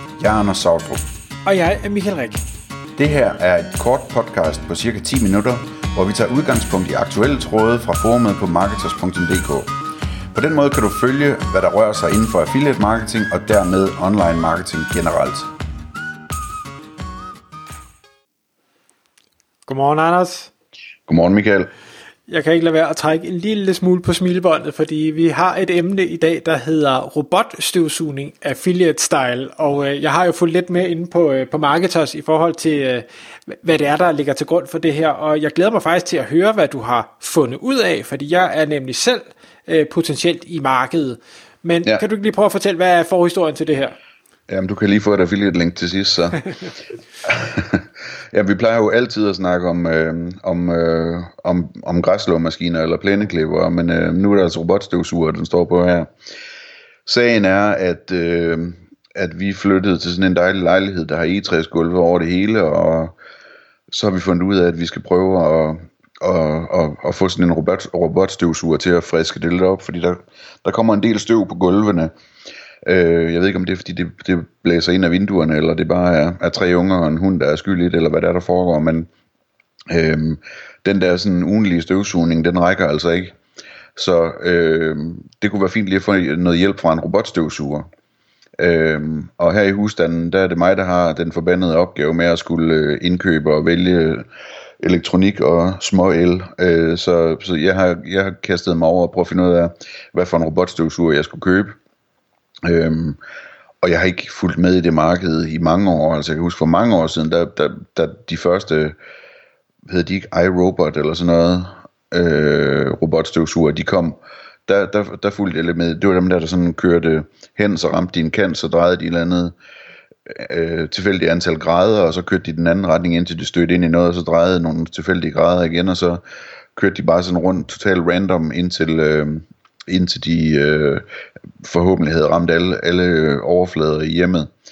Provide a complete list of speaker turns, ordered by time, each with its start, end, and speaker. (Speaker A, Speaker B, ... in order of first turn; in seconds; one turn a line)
Speaker A: 0.2-1.0
Speaker B: 1.4-2.4
Speaker A: 3.0-9.7
Speaker A: 10.3-15.5
Speaker B: 19.7-20.5
Speaker A: 21.1-21.7
Speaker B: 22.3-44.0
Speaker A: 44.5-46.5
Speaker A: 47.2-56.1
Speaker A: 57.1-63.1
Speaker A: 63.9-72.1
Speaker A: 72.8-79.1
Speaker A: 79.9-83.3
Speaker A: 84.0-87.9
Speaker A: 88.6-94.3
Speaker A: 94.8-101.8
Speaker A: 102.6-103.2
Speaker A: 103.8-109.0
Speaker A: 109.9-119.5
Speaker A: 120.3-126.2
Speaker A: 126.8-131.0
Speaker A: 131.6-134.5